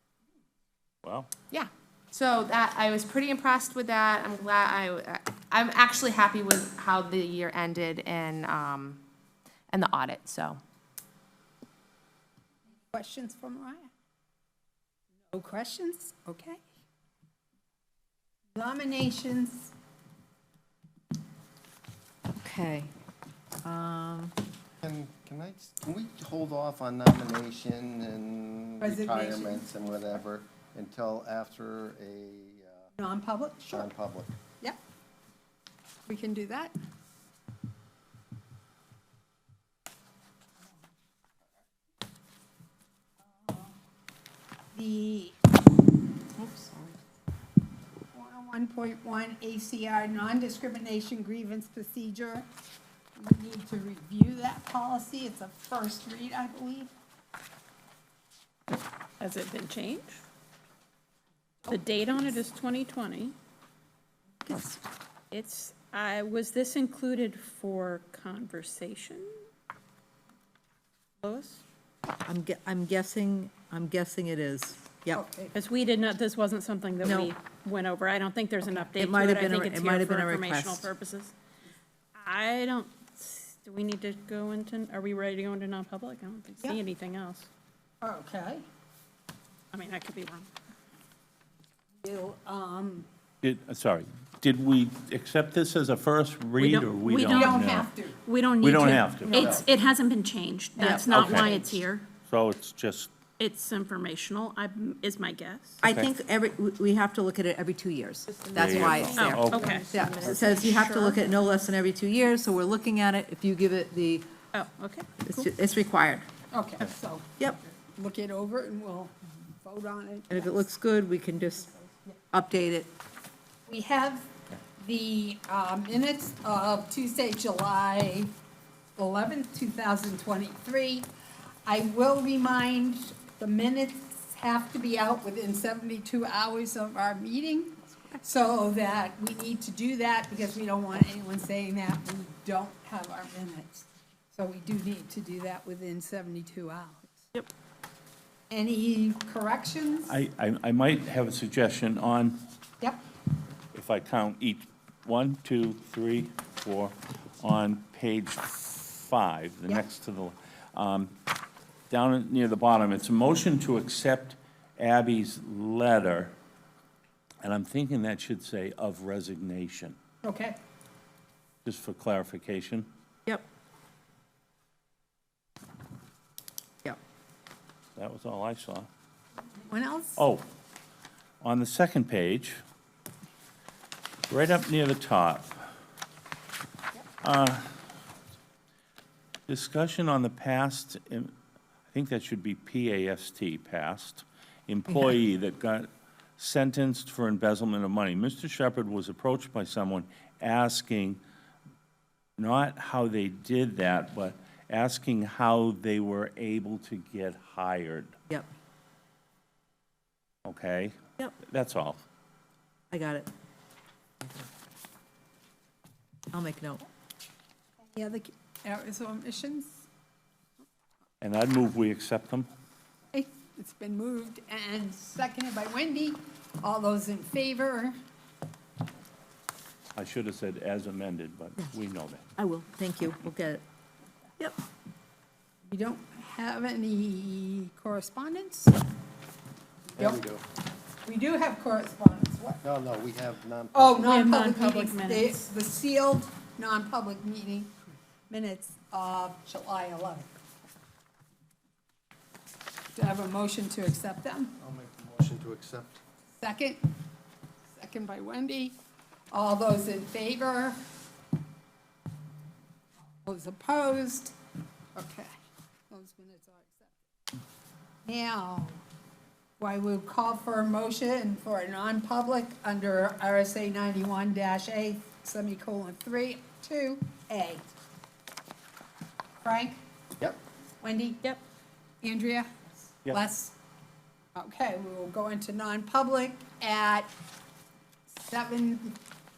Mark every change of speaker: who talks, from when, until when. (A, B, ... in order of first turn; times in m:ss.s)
0:01.0-0:01.3 A
0:01.5-0:09.0 B
0:09.7-0:10.6 B
0:12.9-0:13.9 C
0:15.3-0:16.6 C
0:18.5-0:19.7 C
0:22.4-0:22.9 D
0:23.6-0:24.3 D
0:24.8-0:32.9 E
0:28.8-0:29.7 C
0:33.0-0:33.9 C
0:33.7-0:34.4 E
0:36.1-0:36.7 C
0:43.4-0:43.8 C
0:44.7-0:45.3 C
0:46.4-0:47.0 B
0:48.1-0:52.4 C
0:53.2-0:56.9 C
0:59.2-1:00.2 F
1:01.6-1:02.2 C
1:01.7-1:03.3 F
1:04.4-1:04.8 D
1:05.3-1:09.3 F
1:11.2-1:11.6 F
1:12.2-1:15.2 D
1:15.1-1:15.5 C
1:15.5-1:21.3 F
1:17.0-1:17.3 D
1:18.6-1:20.9 D
1:22.2-1:27.5 F
1:28.0-1:28.6 C
1:29.7-1:30.5 F
1:32.0-1:33.1 C
1:33.4-1:37.9 A
1:36.6-1:37.6 F
1:37.2-1:38.2 C
1:38.2-1:42.1 F
1:38.6-1:39.5 A
1:39.3-1:39.6 E
1:40.8-1:41.5 C
1:41.0-1:41.6 A
1:42.2-1:43.2 A
1:43.4-1:45.8 F
1:45.8-1:54.3 D
1:45.8-1:46.1 A
1:48.4-1:50.6 B
1:48.5-1:50.4 A
1:49.1-1:49.9 F
1:50.5-1:51.2 F
1:54.5-1:55.5 F
1:55.2-1:56.3 D
1:56.5-1:57.3 C
1:57.9-2:00.6 C
2:00.3-2:01.7 D
2:02.3-2:02.9 D
2:03.7-2:08.3 C
2:09.0-2:11.1 C
2:11.6-2:27.3 C
2:28.5-2:30.1 C
2:30.1-2:32.4 A
2:33.7-2:41.1 A
2:41.9-2:46.3 A
2:47.4-2:50.0 A
2:50.2-2:50.6 C
2:51.6-2:52.9 A
2:58.0-2:58.9 A
2:59.6-3:00.2 C
3:00.2-3:00.4 A
3:01.4-3:02.6 A
3:04.3-3:05.6 A
3:07.2-3:07.7 A
3:09.5-3:11.3 A
3:11.9-3:21.2 A
3:22.4-3:28.2 A
3:30.4-3:32.0 A
3:32.9-3:33.3 D
3:36.3-3:36.8 D
3:37.8-3:39.8 C
3:41.2-3:42.5 A
3:43.1-3:47.9 C
3:50.0-3:52.2 A
3:52.4-3:53.6 D
3:55.7-3:58.8 C
4:00.0-4:00.2 C
4:00.0-4:00.4 E
4:01.0-4:02.6 C
4:02.6-4:04.2 E
4:03.7-4:07.7 C
4:04.0-4:05.4 F
4:08.3-4:10.3 C
4:12.9-4:14.5 C
4:14.6-4:16.0 E
4:16.4-4:16.8 C
4:17.8-4:18.7 C
4:19.3-4:20.8 C
4:23.2-4:24.3 C
4:24.9-4:25.3 C
4:25.9-4:26.9 C
4:28.0-4:28.8 C
4:29.6-4:37.7 C
4:39.4-4:39.8 C
4:40.8-4:41.3 C
4:42.0-4:43.6 C
4:44.4-4:47.1 C
4:48.1-4:49.0 C